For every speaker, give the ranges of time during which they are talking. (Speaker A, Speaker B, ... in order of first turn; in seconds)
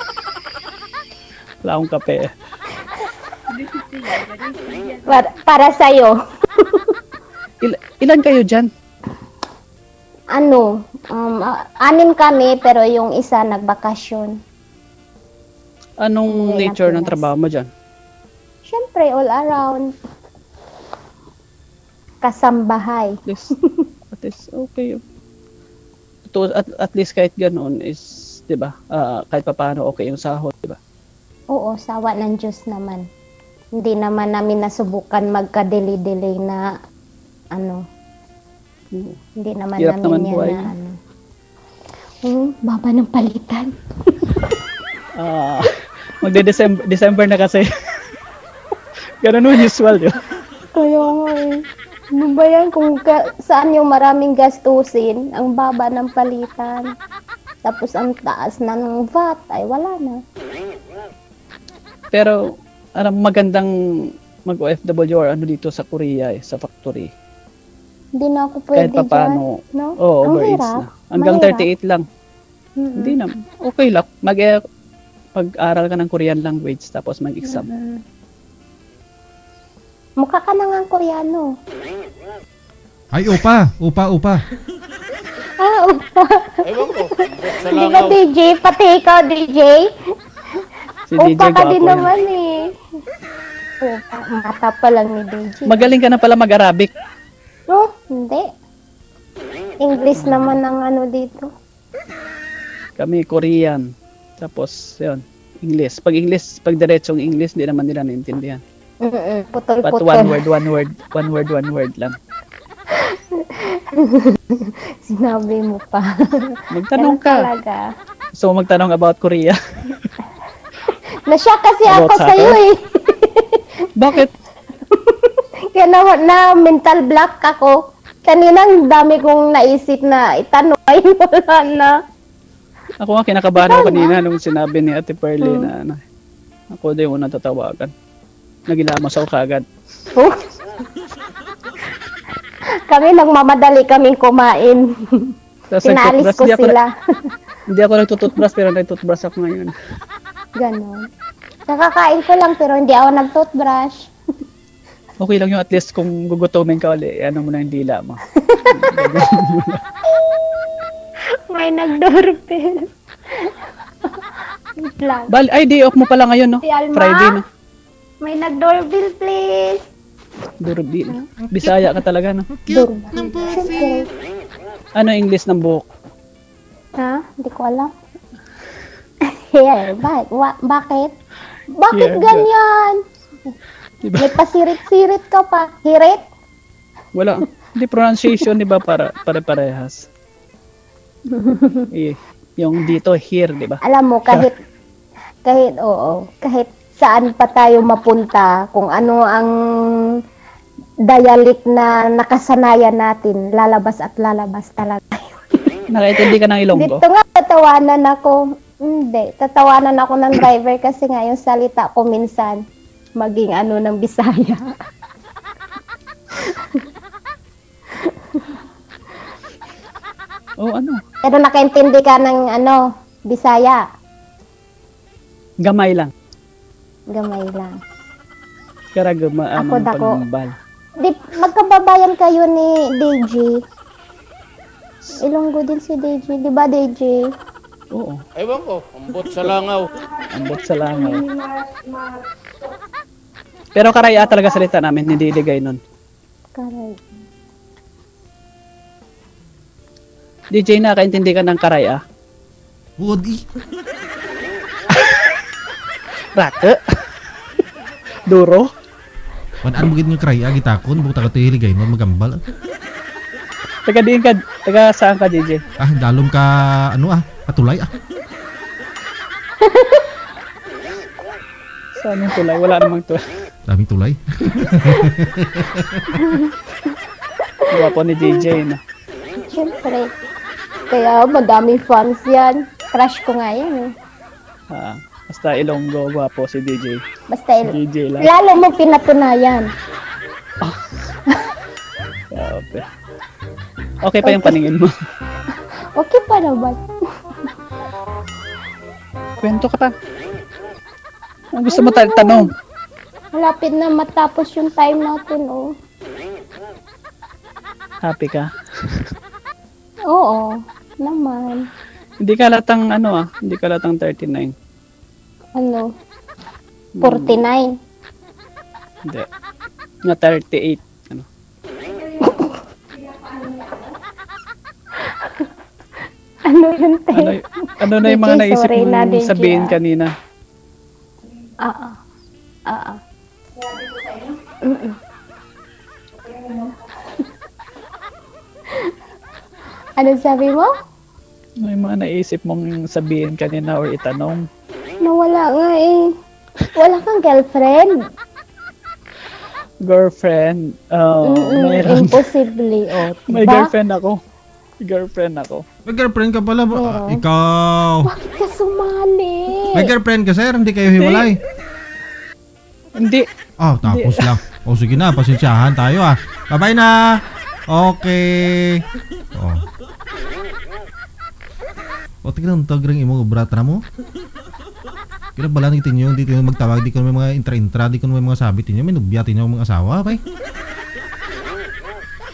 Speaker A: 1.6-2.2, 7.6-8.7, 16.0-17.7, 23.3-23.5, 24.1-25.0, 26.3-30.8, 39.8-40.7, 45.2-45.7, 46.2-47.7, 49.2-50.2, 63.0-67.1, 68.8-72.0, 73.0-74.5, 75.3-77.7, 91.1-92.1, 95.7-96.9, 100.2-100.6, 103.0-103.8, 104.4-108.6, 109.8-112.1, 116.7-117.5, 118.4-120.0, 121.9-122.6, 124.0-124.3, 133.0-136.0, 136.7-137.9, 138.7-139.6, 145.7-146.8, 147.7-149.7, 155.2-159.8, 165.3-167.4, 170.6-172.5, 174.9-175.8, 181.9-182.5, 184.1-184.3, 187.1-190.0, 191.9-194.5, 205.9-207.0, 220.6-221.0, 225.6-226.1, 228.9-230.5, 237.9-238.2, 240.3-241.3, 243.7-245.8, 250.5-252.0, 254.9-255.4, 256.3-256.8, 258.3-258.7, 263.9-265.6, 272.0-273.2, 277.7-278.8, 284.7-287.0, 287.7-288.3, 292.3-292.8, 294.0-294.9, 299.4-299.9, 301.6-302.5, 308.0-309.1, 312.2-314.5, 317.0-317.4, 320.1-321.2, 327.1-330.1, 341.6-344.4, 349.8-352.2, 353.3-354.2, 354.8-355.6, 361.0-361.3, 363.0-363.2, 363.8-364.3
Speaker B: 5.0-6.9, 10.3-14.3, 16.3-17.3, 18.6-19.9, 22.2-23.1, 31.5-33.0, 33.8-36.7, 37.5-37.8, 39.4-40.9, 42.2-44.6, 50.7-51.6, 52.1-56.9, 57.6-60.2, 68.2-71.7, 72.8-73.2, 77.4-78.0, 80.2-81.5, 85.6-89.9, 91.2-92.6, 93.8-95.9, 97.7-98.5, 99.8-101.5, 109.0-110.4, 112.9-117.8, 121.2-123.7, 124.9-131.9, 133.6-134.2, 135.4-135.7, 142.8-146.9, 150.6-151.1, 151.7-154.1, 158.3-159.1, 161.5-162.8, 164.8-165.3, 166.6-167.4, 168.2-169.8, 172.7-174.1, 177.0-177.9, 179.3-181.1, 181.7-183.0, 184.2-186.2, 191.3-191.9, 193.8-194.6, 195.4-199.5, 201.1-205.8, 206.8-212.6, 213.2-214.7, 218.0-218.4, 221.2-222.8, 223.3-223.8, 227.1-227.7, 229.6-230.2, 231.0-233.6, 235.2-237.3, 246.5-247.0, 269.6-270.1, 272.5-272.8, 276.1-276.6, 279.4-280.1, 280.9-283.9, 287.3-289.7, 294.2-294.6, 295.9-296.8, 301.7-302.5, 303.3-305.7, 310.1-311.6, 315.6-315.9, 317.0-317.7, 322.0-323.9, 325.0-325.5, 326.4-327.4, 327.9-329.8, 331.6-332.0, 332.7-333.0, 333.8-335.0, 336.3-336.7, 340.0-340.7, 345.0-346.1, 346.7-348.0, 351.2-353.7, 356.7-357.2, 358.1-359.9
Speaker C: 83.1-84.4, 171.4-171.9, 172.6-173.6, 253.0-253.4, 259.6-262.4, 265.8-267.9, 273.7-276.2, 355.9-358.1, 359.7-361.4, 363.6-368.8, 369.3-369.6, 372.2-373.8, 375.4-380.2
Speaker D: 86.8-88.0, 238.4-239.8